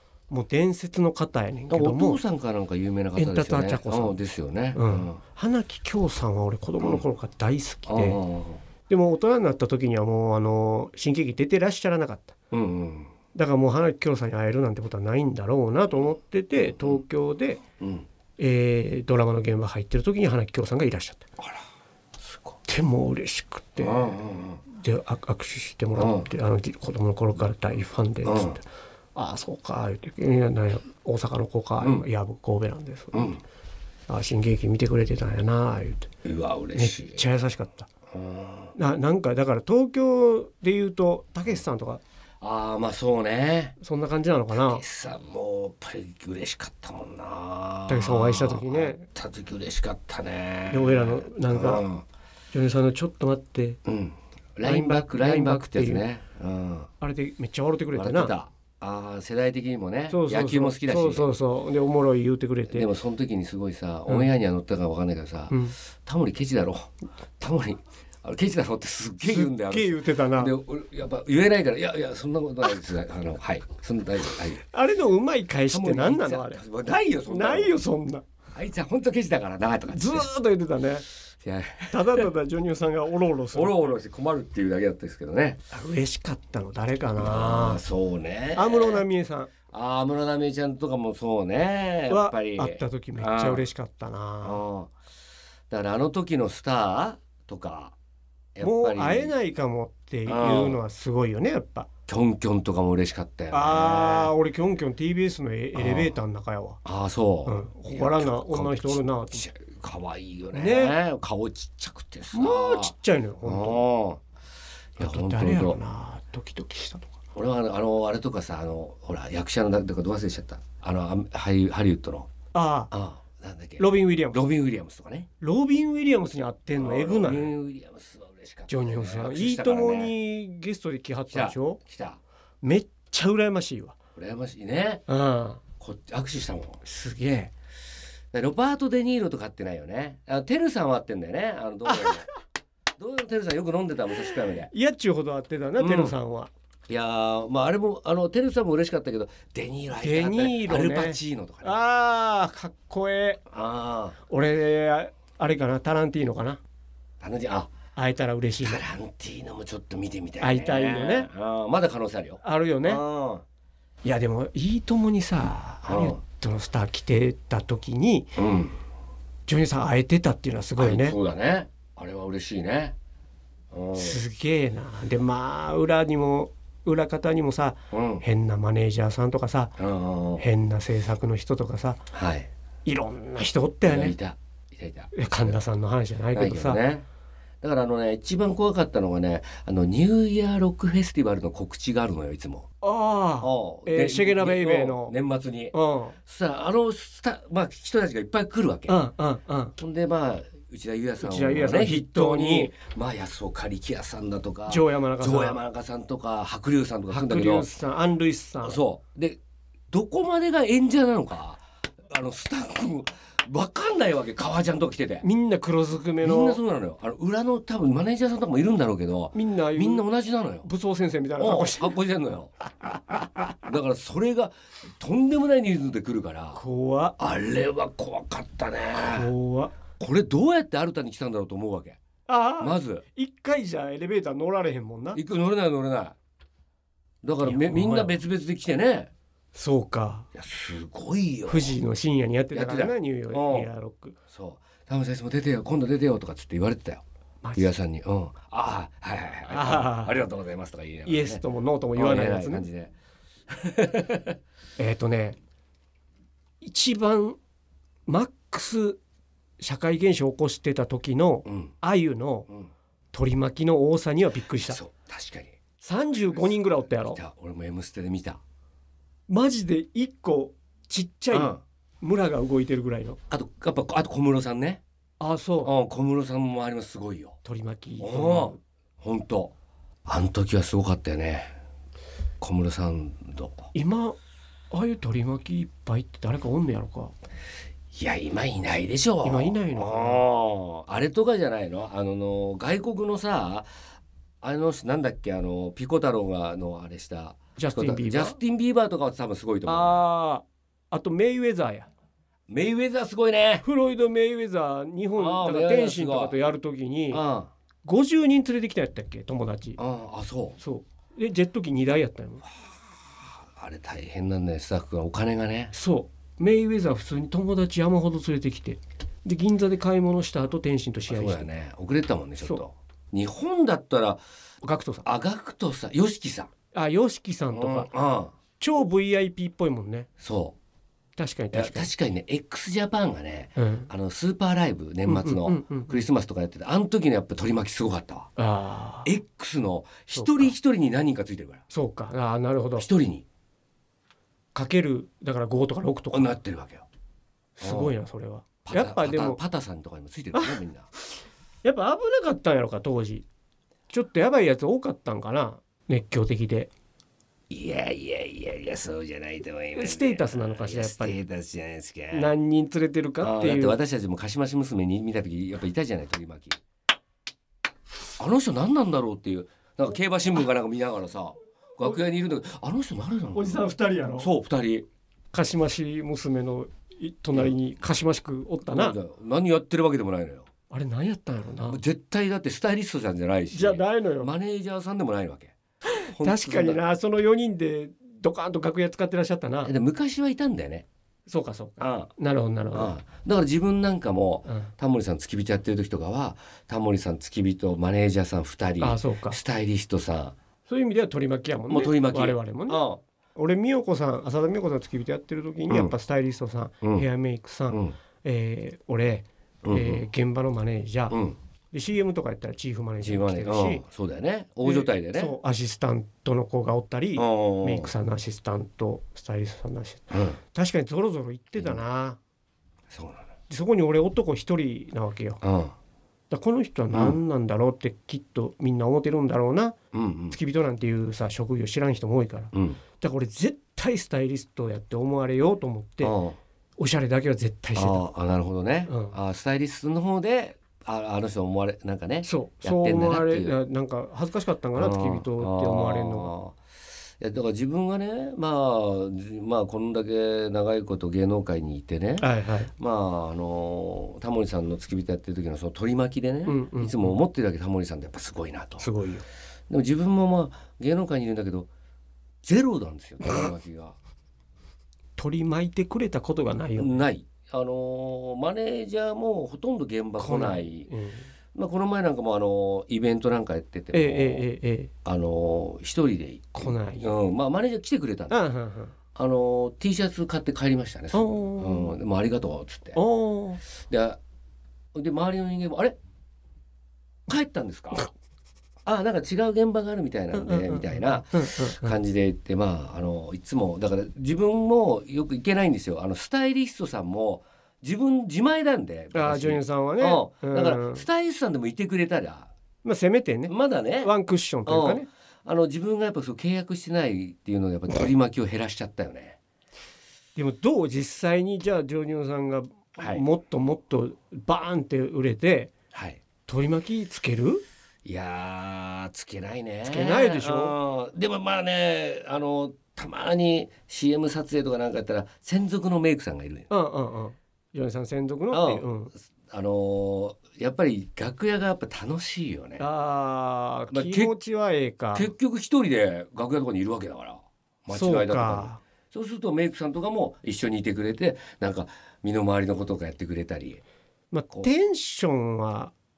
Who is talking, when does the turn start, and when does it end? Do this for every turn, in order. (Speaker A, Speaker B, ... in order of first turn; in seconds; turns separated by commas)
Speaker A: 0.3-2.2, Speaker B: 1.7-5.2, Speaker A: 3.1-4.2, Speaker A: 4.7-8.2, Speaker B: 7.9-8.6, Speaker A: 8.9-12.3, Speaker B: 12.5-13.1, Speaker A: 13.3-17.6, Speaker B: 17.8-18.1, Speaker A: 18.4-21.2, Speaker B: 22.2-22.6, Speaker A: 22.6-24.2, Speaker B: 23.8-24.6, Speaker A: 24.7-33.3, Speaker B: 25.9-26.3, Speaker B: 28.2-28.6, Speaker B: 33.1-33.4, Speaker A: 34.1-36.1, Speaker B: 36.2-37.2, Speaker A: 36.8-37.9, Speaker B: 38.1-38.7, Speaker A: 38.8-42.0, Speaker B: 42.4-43.8, Speaker A: 43.8-44.8, Speaker B: 44.5-52.0, Speaker A: 47.9-49.0, Speaker A: 50.7-51.8, Speaker A: 52.5-53.8, Speaker B: 53.8-56.9, Speaker A: 54.6-56.0, Speaker A: 57.0-58.3, Speaker B: 57.9-61.3, Speaker A: 60.1-62.9, Speaker B: 62.7-74.6, Speaker A: 65.5-65.8, Speaker A: 69.2-70.5, Speaker A: 74.7-76.6, Speaker B: 75.7-77.8, Speaker A: 77.3-78.2, Speaker B: 78.5-80.3, Speaker A: 79.9-81.0, Speaker B: 81.4-82.3, Speaker A: 81.9-83.9, Speaker B: 83.5-85.6, Speaker A: 85.7-87.8, Speaker B: 87.2-89.0, Speaker A: 88.5-89.5, Speaker B: 89.7-93.7, Speaker A: 92.1-94.6, Speaker B: 94.4-94.9, Speaker B: 95.7-98.0, Speaker B: 98.5-99.3, Speaker A: 98.6-101.9, Speaker B: 100.2-100.8, Speaker B: 102.1-104.3, Speaker A: 103.5-106.8, Speaker B: 105.7-106.1, Speaker B: 106.8-114.2, Speaker A: 107.5-109.4, Speaker A: 110.5-111.0, Speaker A: 112.3-113.8, Speaker B: 115.0-115.8, Speaker A: 115.0-117.1, Speaker B: 117.3-122.3, Speaker A: 122.5-122.9, Speaker B: 122.9-125.3, Speaker A: 123.8-124.5, Speaker A: 125.4-127.5, Speaker B: 126.8-130.1, Speaker A: 128.7-131.8, Speaker B: 131.3-132.2, Speaker A: 132.6-133.9, Speaker B: 134.2-135.0, Speaker A: 135.1-135.6, Speaker B: 135.8-136.8, Speaker A: 136.8-137.5, Speaker B: 138.3-142.2, Speaker A: 141.9-142.2, Speaker B: 143.0-144.7, Speaker A: 144.7-146.5, Speaker B: 145.8-146.2, Speaker B: 146.9-151.8, Speaker A: 149.9-153.4, Speaker B: 153.5-154.2, Speaker A: 154.3-156.6, Speaker B: 157.2-157.7, Speaker A: 157.9-158.8, Speaker B: 158.6-163.4, Speaker A: 160.4-161.3, Speaker A: 162.4-163.0, Speaker A: 164.0-168.4, Speaker B: 165.8-166.2, Speaker B: 168.4-168.8, Speaker A: 169.5-171.2, Speaker B: 170.8-172.9, Speaker B: 173.7-174.2, Speaker A: 173.9-179.8, Speaker B: 177.9-178.2, Speaker B: 179.8-180.4, Speaker A: 180.4-182.0, Speaker B: 182.1-182.5, Speaker A: 182.8-184.2, Speaker B: 183.8-185.6, Speaker A: 185.1-186.8, Speaker B: 186.3-187.0, Speaker B: 187.6-192.7, Speaker A: 192.8-195.1, Speaker B: 193.4-195.7, Speaker A: 195.7-196.2, Speaker B: 196.2-199.0, Speaker A: 198.9-199.8, Speaker B: 199.8-207.7, Speaker A: 201.2-202.7, Speaker A: 204.7-205.6, Speaker A: 207.1-208.8, Speaker B: 208.6-209.4, Speaker B: 209.9-215.2, Speaker A: 215.2-216.6, Speaker B: 216.2-220.7, Speaker A: 219.3-220.1, Speaker A: 220.6-221.9, Speaker B: 221.4-222.7, Speaker B: 223.5-226.6, Speaker A: 226.5-227.2, Speaker B: 227.2-229.3, Speaker A: 229.0-229.7, Speaker B: 230.0-232.0, Speaker A: 232.3-235.2, Speaker B: 232.6-233.0, Speaker B: 235.1-236.2, Speaker B: 237.2-239.1, Speaker A: 237.4-238.2, Speaker A: 239.5-240.3, Speaker B: 240.3-241.7, Speaker A: 241.5-244.2, Speaker B: 242.5-243.7, Speaker B: 244.3-247.0, Speaker A: 247.4-247.7, Speaker B: 247.6-251.4, Speaker A: 249.5-250.2, Speaker A: 251.1-252.7, Speaker B: 251.9-252.9, Speaker B: 253.5-254.4, Speaker A: 254.8-255.4, Speaker A: 256.6-257.4, Speaker A: 258.1-259.0, Speaker A: 259.6-262.5, Speaker B: 261.4-261.7, Speaker A: 263.1-264.8, Speaker B: 264.6-265.6, Speaker A: 265.8-267.2, Speaker B: 266.2-268.4, Speaker A: 269.3-273.2, Speaker B: 271.3-271.6, Speaker B: 273.3-274.8, Speaker A: 275.2-275.7, Speaker B: 275.6-277.4, Speaker A: 277.4-278.6, Speaker B: 278.0-279.5, Speaker B: 280.1-281.5, Speaker B: 282.4-283.7, Speaker A: 283.7-284.2, Speaker A: 284.7-287.1, Speaker B: 287.9-293.7, Speaker A: 289.2-290.3, Speaker B: 294.4-300.0, Speaker A: 297.6-298.4, Speaker A: 299.6-301.9, Speaker B: 302.5-303.6, Speaker A: 303.6-307.2, Speaker B: 305.2-306.4, Speaker B: 307.1-307.5, Speaker A: 307.8-309.8, Speaker B: 309.8-310.6, Speaker A: 310.6-312.4, Speaker B: 312.6-315.7, Speaker A: 315.7-321.5, Speaker B: 321.1-324.2, Speaker A: 324.6-325.1, Speaker B: 325.0-326.5, Speaker A: 326.7-327.9, Speaker B: 327.5-328.3, Speaker A: 328.6-330.1, Speaker B: 330.2-330.6, Speaker A: 331.2-331.9, Speaker B: 331.5-338.3, Speaker A: 333.6-333.9, Speaker A: 335.1-335.9, Speaker A: 338.4-339.1, Speaker B: 339.0-341.6, Speaker A: 340.1-340.5, Speaker A: 341.7-342.9, Speaker B: 342.8-343.2, Speaker A: 344.5-346.4, Speaker B: 346.1-346.9, Speaker A: 347.6-349.4, Speaker B: 347.6-347.9, Speaker B: 348.6-350.9, Speaker A: 351.6-353.2, Speaker A: 353.9-356.7, Speaker B: 357.5-362.3, Speaker A: 359.7-361.2, Speaker A: 362.1-363.8, Speaker B: 363.2-366.6, Speaker B: 368.2-374.8, Speaker A: 373.3-374.3, Speaker A: 375.3-378.9, Speaker B: 378.6-380.5, Speaker A: 380.7-381.8, Speaker B: 381.7-386.8, Speaker A: 383.5-384.3, Speaker A: 385.9-389.7, Speaker B: 389.6-390.9, Speaker A: 391.3-392.9, Speaker B: 391.8-392.1, Speaker B: 392.7-400.4, Speaker A: 394.5-394.7, Speaker A: 398.8-399.4, Speaker A: 400.7-402.8, Speaker B: 401.7-403.0, Speaker A: 403.4-411.2, Speaker B: 407.7-407.9, Speaker B: 409.6-410.1, Speaker B: 411.1-411.4, Speaker A: 411.7-413.8, Speaker B: 413.0-415.4, Speaker A: 414.6-422.2, Speaker B: 417.1-417.9, Speaker B: 420.1-420.4, Speaker B: 422.9-423.3, Speaker A: 423.5-425.4, Speaker B: 425.4-425.7, Speaker A: 426.3-429.8, Speaker B: 426.9-427.2, Speaker B: 429.9-430.4, Speaker A: 430.3-436.1, Speaker B: 432.5-432.8, Speaker B: 436.0-436.4, Speaker A: 436.8-438.1, Speaker B: 437.7-443.6, Speaker A: 438.9-439.2, Speaker A: 442.2-446.3, Speaker B: 444.8-446.6, Speaker B: 447.2-458.9, Speaker A: 452.2-452.7, Speaker A: 456.4-457.2, Speaker A: 458.8-459.2, Speaker B: 459.7-461.7, Speaker B: 462.4-463.9, Speaker A: 465.2-467.0, Speaker B: 466.8-470.9, Speaker A: 470.2-471.3, Speaker B: 471.5-474.4, Speaker A: 473.9-474.9, Speaker B: 475.0-478.4, Speaker A: 476.5-477.1, Speaker A: 478.3-478.9, Speaker B: 479.1-483.0, Speaker A: 481.1-481.9, Speaker A: 482.9-483.6, Speaker B: 483.8-484.2, Speaker B: 484.9-485.9, Speaker B: 487.3-488.1, Speaker B: 488.8-502.5, Speaker A: 490.3-492.0, Speaker A: 499.1-501.0, Speaker A: 502.8-505.1, Speaker B: 503.5-504.1, Speaker B: 504.6-509.4, Speaker A: 510.4-515.7, Speaker B: 513.0-513.2, Speaker B: 515.9-516.2, Speaker A: 516.5-517.6, Speaker B: 518.0-526.7, Speaker A: 519.8-520.8, Speaker A: 526.7-529.1, Speaker B: 528.5-532.9, Speaker A: 532.8-535.3, Speaker B: 533.9-534.3, Speaker B: 535.1-543.8, Speaker A: 537.9-538.8, Speaker A: 544.3-545.9